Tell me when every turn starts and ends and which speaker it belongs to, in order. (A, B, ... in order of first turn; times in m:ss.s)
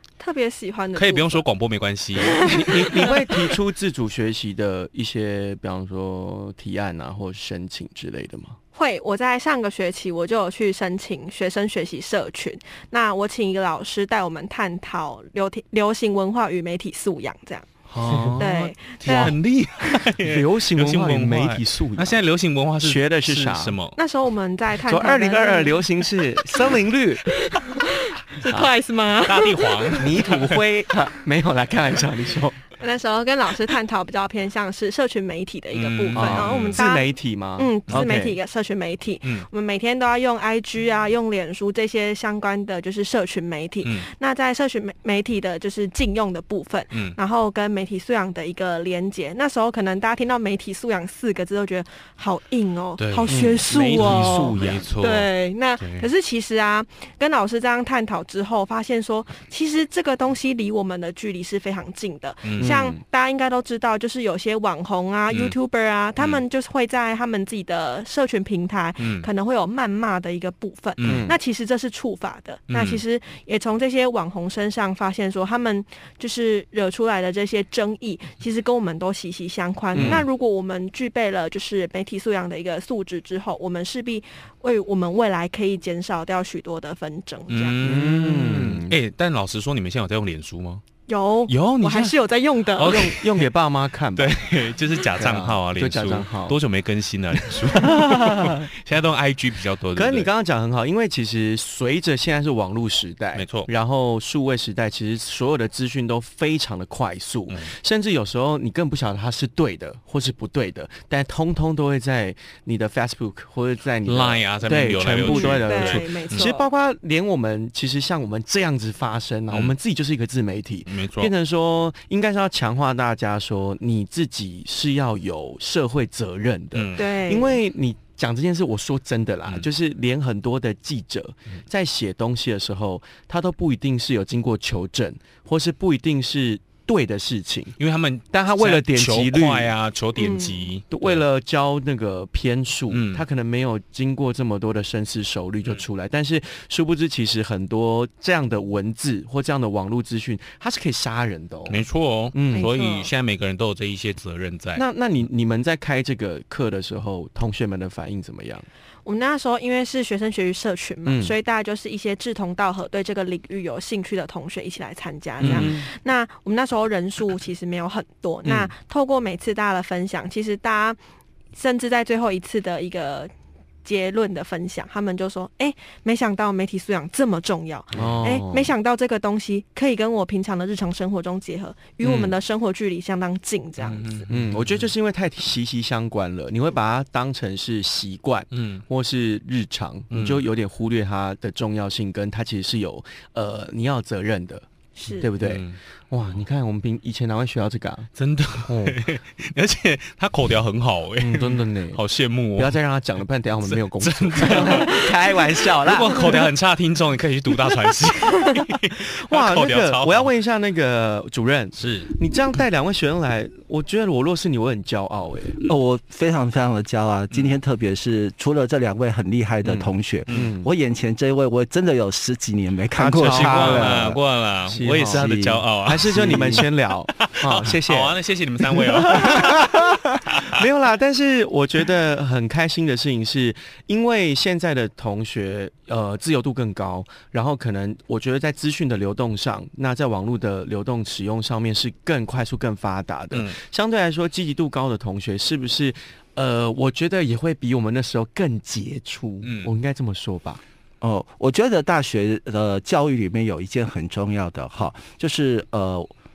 0:00.2-0:01.4 A
0:00.9-0:02.5 B
0:02.2-0:03.5 A
0:02.4-0:08.6 C
0:08.7-0:17.7 A
0:17.9-0:19.3 C
0:18.0-0:24.0 B
0:18.4-0:20.0 A
0:20.2-0:22.2 C
0:22.8-0:23.8 C
0:23.9-0:25.8 A
0:24.9-0:27.3 C
0:27.3-0:30.0 A
0:29.2-0:30.6 B
0:29.9-0:32.6 C
0:32.8-1:27.8 A
0:35.7-0:36.8 B
0:36.2-0:38.4 C
0:43.8-0:44.1 B
0:53.0-0:56.1 B
0:53.3-0:54.8 C
1:02.4-1:02.7 B
1:02.6-1:03.0 C
1:05.3-1:05.5 B
1:06.2-1:06.4 B
1:09.0-1:09.3 B
1:11.0-1:11.2 B
1:11.1-1:11.4 C
1:12.7-1:13.0 B
1:19.9-1:20.2 C
1:20.0-1:20.2 B
1:27.5-1:30.8 B
1:27.8-1:29.0 C
1:31.1-1:33.1 A
1:31.5-1:32.2 B
1:32.8-1:33.5 B
1:32.8-1:34.4 C
1:34.1-1:40.3 B
1:35.2-1:36.6 C
1:37.7-1:38.5 C
1:37.9-1:38.6 A
1:39.9-2:17.7 C
1:43.3-1:43.7 B
1:54.0-1:56.5 B
1:55.1-1:56.7 A
2:00.9-2:01.3 B
2:06.7-2:07.0 B
2:07.0-2:07.6 A
2:17.8-2:21.2 B
2:18.3-2:19.7 C
2:20.2-2:20.7 A
2:20.9-2:31.8 C
2:22.9-2:23.2 B
2:31.7-2:34.8 B
2:32.3-2:32.7 C
2:32.5-2:33.1 A
2:34.7-2:38.7 C
2:39.0-2:51.0 A
2:41.1-2:41.3 C
2:45.4-2:45.8 C
2:45.4-2:45.8 B
2:48.4-2:48.7 C
2:51.5-2:53.3 A
2:53.8-3:04.3 A
2:57.9-2:58.7 C
3:03.8-3:04.9 B
3:04.3-3:18.1 C
3:08.5-3:08.8 B
3:10.1-3:10.4 B
3:15.0-3:15.3 A
3:15.4-3:15.8 B
3:18.2-3:22.8 B
3:18.7-3:19.0 C
3:21.2-3:22.0 C
3:22.6-3:26.3 C
3:23.6-3:30.3 B
3:29.2-3:35.6 C
3:31.8-3:32.1 B
3:35.6-3:44.2 D
3:39.6-3:40.7 C
3:40.3-3:40.5 B
3:43.0-3:44.1 C
3:43.2-3:46.6 B
3:44.7-3:45.3 C
3:45.1-3:46.6 D
3:45.8-3:49.6 C
3:47.2-3:50.6 B
3:50.5-4:10.6 C
4:03.3-4:03.6 B
4:09.4-4:09.7 B
4:11.0-4:16.1 D